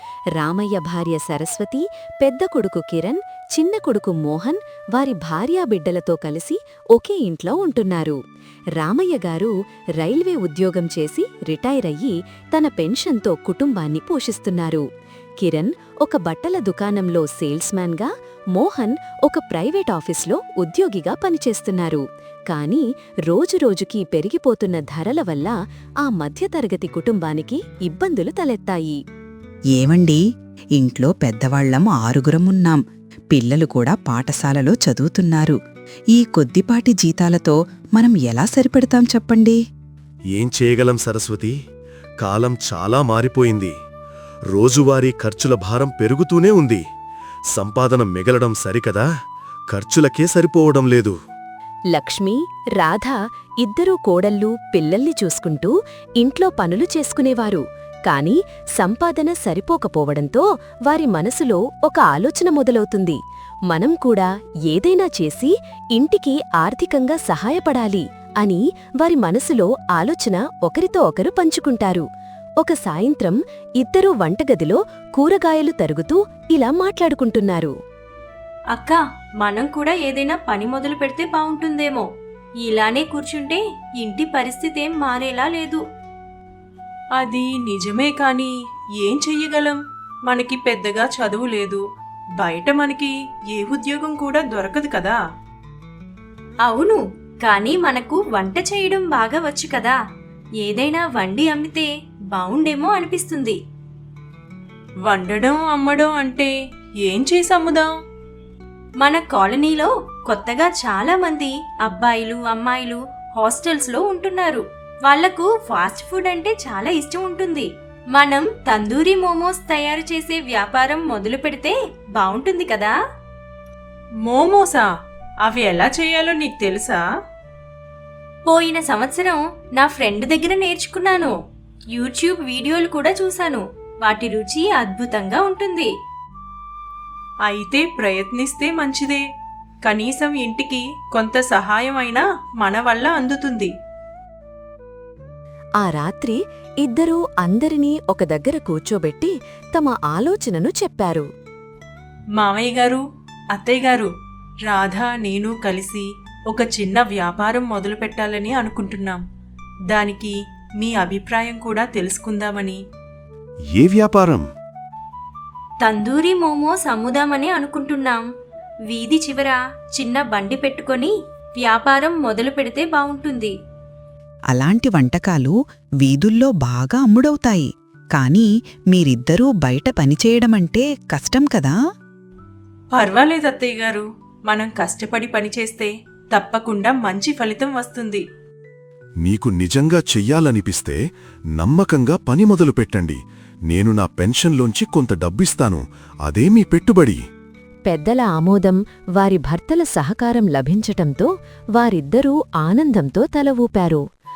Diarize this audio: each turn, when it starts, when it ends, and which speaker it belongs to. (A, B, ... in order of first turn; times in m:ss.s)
0:00.4-0:08.2 A
0:08.8-0:14.9 A
0:15.4-0:29.0 A
0:29.7-0:30.2 B
0:30.8-0:35.6 B
0:36.1-0:39.6 B
0:40.3-0:41.6 C
0:42.2-0:43.7 C
0:44.5-0:46.8 C
0:47.5-0:49.1 C
0:49.7-0:51.2 C
0:51.9-1:12.1 A
1:12.6-1:17.7 A
1:18.7-1:22.1 D
1:22.6-1:25.8 D
1:27.2-1:31.8 E
1:32.4-1:35.2 E
1:36.6-1:40.0 D
1:40.6-1:43.6 D
1:45.1-1:46.5 E
1:47.0-1:47.9 E
1:49.0-2:03.0 D
2:04.2-2:04.9 E
2:05.4-2:07.0 E
2:08.5-2:11.4 D
2:11.9-2:15.9 D
2:17.5-2:19.2 E
2:19.8-2:23.7 E
2:25.8-2:31.3 A
2:32.4-2:33.0 E
2:33.5-2:34.1 E
2:34.7-2:39.2 E
2:39.9-2:42.8 E
2:43.7-2:44.5 C
2:45.8-2:48.2 D
2:48.9-2:53.5 D
2:54.5-3:01.8 B
3:02.9-3:08.2 E
3:09.2-3:11.0 C
3:11.6-3:13.2 C
3:13.7-3:17.2 C
3:17.9-3:24.0 A